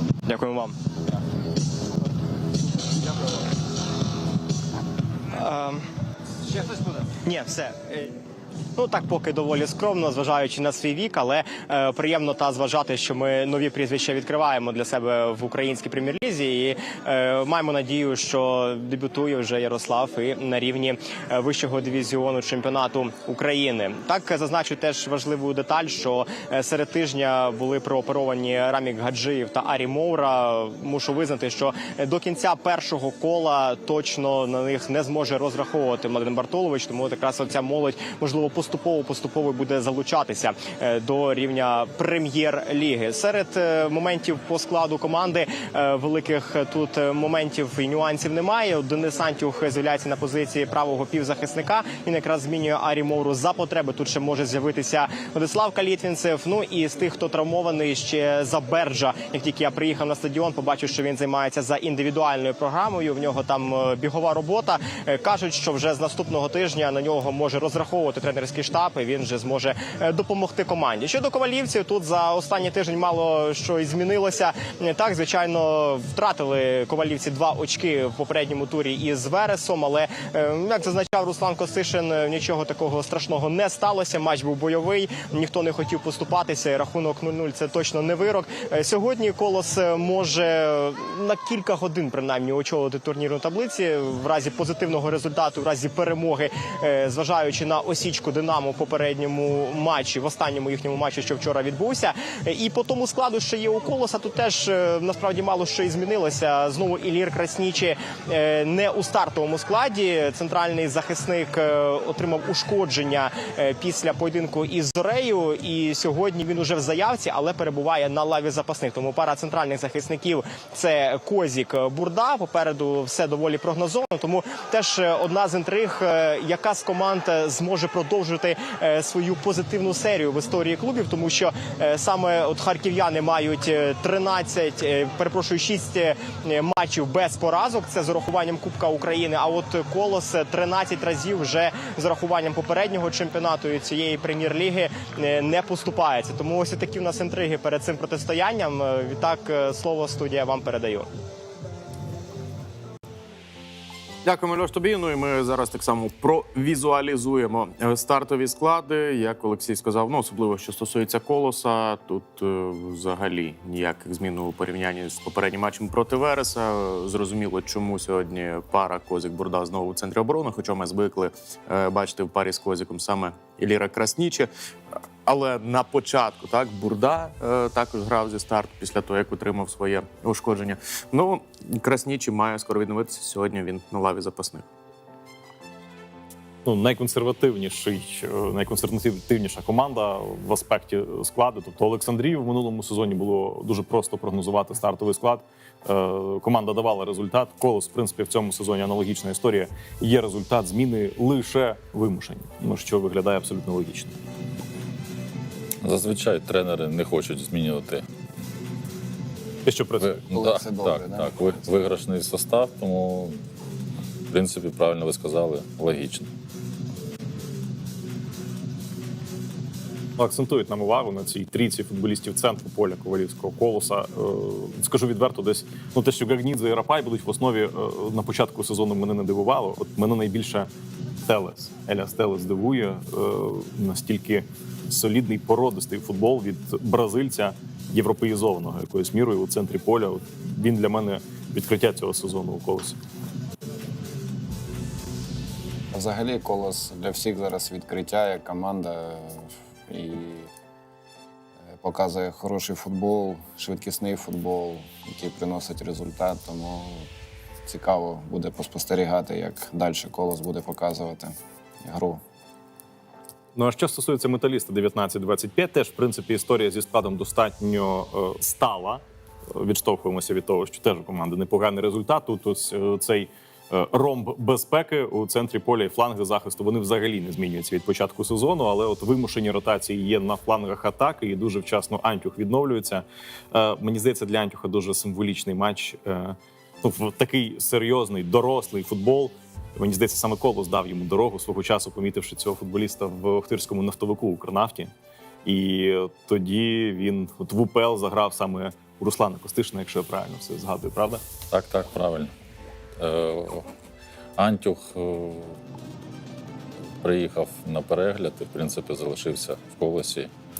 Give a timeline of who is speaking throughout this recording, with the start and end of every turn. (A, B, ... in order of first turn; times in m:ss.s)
0:00.2-0:00.7 A
0:05.3-0:05.8 A
0:07.2-0:08.1 A
0:08.8-2:31.1 A
2:34.2-2:54.5 B
2:55.2-3:04.7 B
3:06.6-3:24.1 C
3:25.8-3:28.0 D
3:29.6-3:30.2 C
3:30.0-3:33.4 D
3:30.3-3:31.7 E
3:34.3-3:36.3 D
3:40.2-3:50.7 C
3:51.2-4:03.0 C
4:05.9-4:10.5 E
4:11.7-4:17.1 E
4:17.6-4:22.2 E
4:23.5-4:54.9 C
4:55.4-5:01.2 C
5:01.5-5:02.3 D
5:03.0-5:03.7 D
5:04.4-5:05.6 D
5:07.0-5:10.3 D